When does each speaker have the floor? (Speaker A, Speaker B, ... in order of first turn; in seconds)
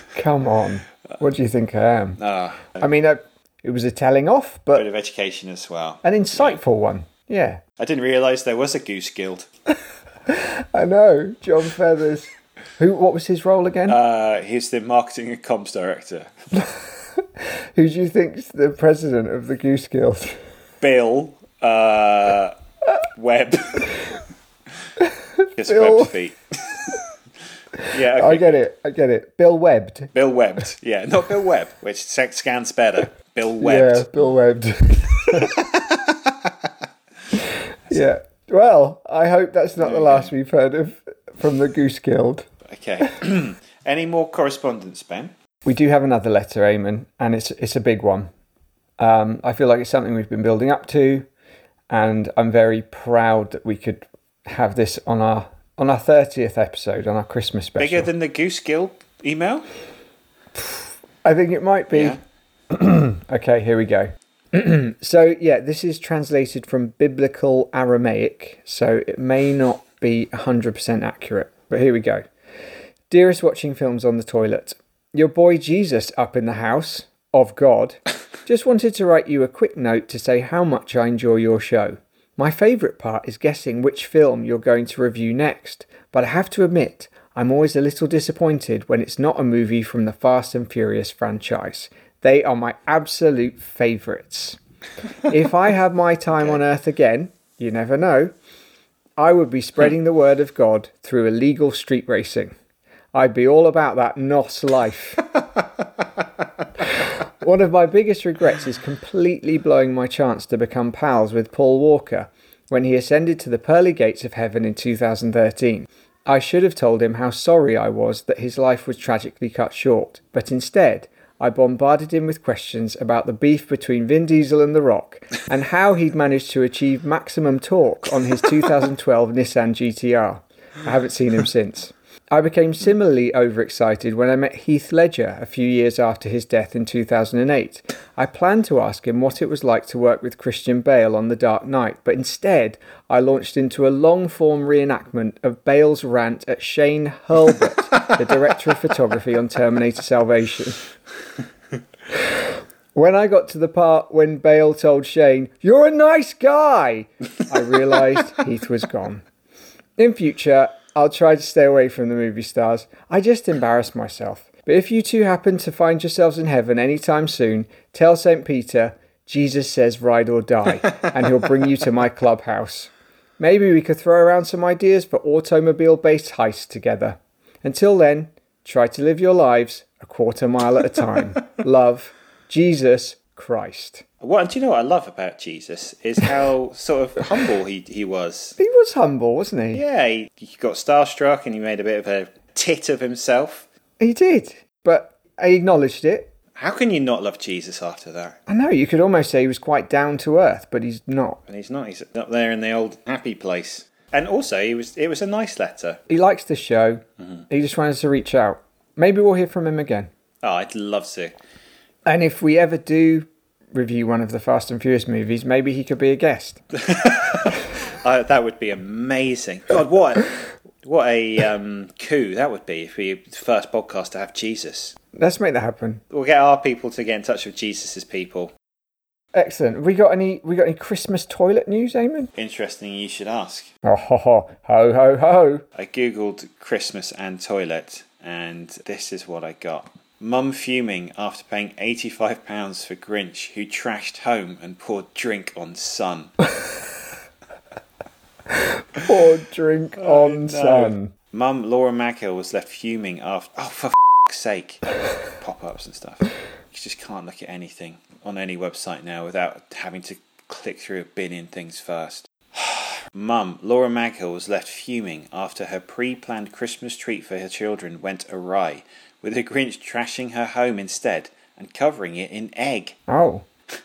Speaker A: 0.1-2.2, 2.8-4.9, 6.0-7.6, 10.3-14.0, 17.2-20.4, 25.7-26.1, 28.1-30.1, 33.6-35.6, 37.9-42.5, 45.6-48.3, 49.0-51.3, 51.9-58.1, 60.6-62.2, 62.7-72.3, 73.1-94.6, 95.3-98.3, 99.2-102.5, 103.1-105.2, 106.8-150.8, 152.2-159.2, 160.0-184.0, 188.6-189.8, 194.0-196.3, 198.5-201.4, 206.1-210.1, 212.1-216.6, 225.1-226.0, 229.3-232.3, 233.8-235.7, 248.9-251.1, 273.1-273.4
Speaker B: 2.2-2.9, 4.8-6.6, 7.8-9.5, 13.9-16.3, 20.8-22.6, 23.1-24.0, 25.5-26.9, 27.9-28.6, 30.1-34.3, 35.2-36.3, 39.8-40.3, 42.6-45.3, 57.8-59.7, 61.9-62.2, 184.2-188.6, 189.7-193.7, 196.6-198.4, 201.5-206.0, 210.4-211.4, 216.7-225.0, 226.1-228.5, 232.4-233.7, 235.8-246.3, 250.0-254.8, 255.4-273.0